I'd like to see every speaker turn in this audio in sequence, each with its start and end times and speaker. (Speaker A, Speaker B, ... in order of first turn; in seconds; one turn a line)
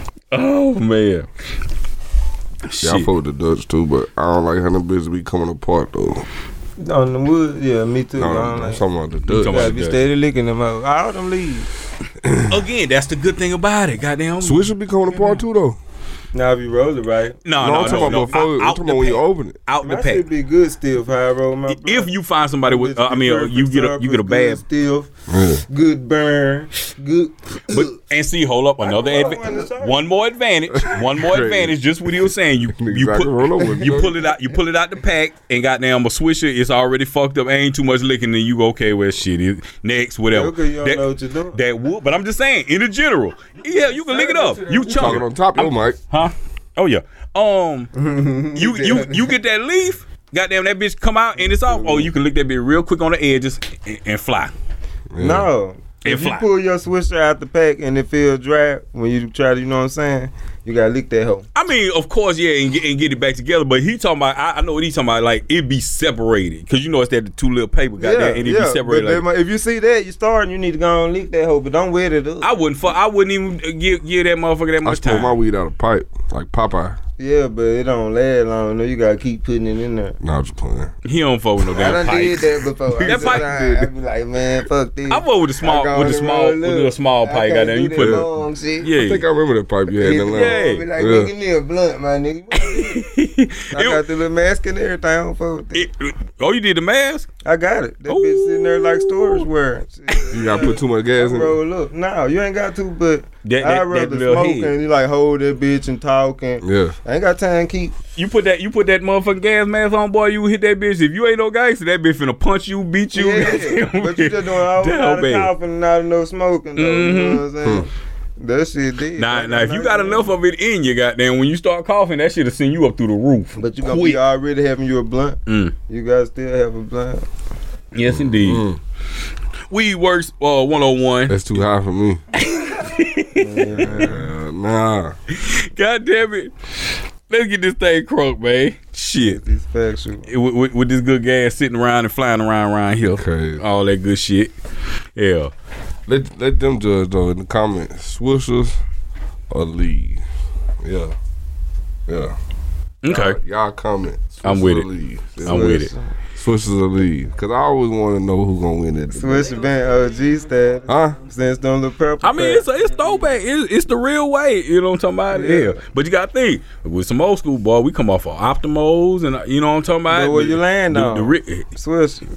Speaker A: 0.3-1.3
Speaker A: 2.6-3.1
Speaker B: 2.8-6.2
Speaker C: 6.8-8.8
Speaker B: 8.2-9.7
Speaker A: 9.3-10.1
Speaker C: 9.4-11.7
Speaker B: 12.2-12.6
Speaker A: 12.4-14.7
Speaker B: 14.4-15.8
Speaker C: 16.3-18.3
Speaker A: 17.4-20.2
Speaker B: 17.6-19.6
Speaker C: 19.8-22.1
Speaker A: 21.7-24.6
Speaker C: 22.6-25.1
Speaker B: 25.3-25.6
Speaker C: 25.6-27.9
Speaker A: 27.7-47.9
Speaker C: 28.8-30.0
Speaker B: 30.7-34.2
Speaker C: 40.3-41.6
Speaker C: 44.0-45.1
Speaker B: 44.9-46.0
Speaker C: 47.9-49.3
Speaker A: 48.5-54.5
Speaker C: 51.4-52.1
Speaker B: 55.1-55.5
Speaker C: 55.2-61.4
Speaker A: 56.0-56.5
Speaker A: 61.5-69.2
Speaker C: 68.0-72.5
Speaker A: 72.4-75.3
Speaker B: 74.8-77.0
Speaker C: 77.2-80.2
Speaker B: 80.2-80.9
Speaker A: 81.0-83.8
Speaker C: 81.7-88.9
Speaker B: 82.9-83.7
Speaker A: 85.1-88.3
Speaker B: 88.0-88.3
Speaker A: 88.8-89.2
Speaker B: 88.9-91.3
Speaker C: 90.0-93.0
Speaker A: 90.2-90.8
Speaker A: 92.6-94.0
Speaker C: 93.7-95.9
Speaker A: 95.7-97.3
Speaker C: 97.4-107.9
Speaker A: 98.1-99.5
Speaker B: 100.3-101.6
Speaker A: 103.4-104.7
Speaker B: 106.6-107.0
Speaker A: 108.2-115.5
Speaker C: 113.1-117.9
Speaker A: 116.8-117.4
Speaker C: 118.4-120.3
Speaker A: 119.2-124.2
Speaker C: 123.6-127.2
Speaker A: 125.5-125.7
Speaker A: 127.9-128.7
Speaker B: 128.4-128.8
Speaker A: 129.7-131.3
Speaker B: 131.3-132.2
Speaker A: 132.4-134.1
Speaker C: 133.4-134.2
Speaker B: 133.8-135.1
Speaker A: 135.3-136.5
Speaker A: 137.3-139.4
Speaker C: 139.4-140.3
Speaker A: 140.3-144.5
Speaker B: 143.1-143.6
Speaker A: 145.2-145.5
Speaker B: 146.1-148.8
Speaker B: 149.5-150.2
Speaker B: 150.8-151.1
Speaker B: 152.1-152.3
Speaker A: 153.0-153.4
Speaker B: 153.1-155.7
Speaker A: 154.4-154.8
Speaker A: 155.4-155.9
Speaker C: 155.4-156.1
Speaker B: 156.3-159.5
Speaker C: 159.1-162.7
Speaker B: 160.9-161.2
Speaker A: 162.2-171.7
Speaker C: 165.3-165.8
Speaker C: 170.1-172.2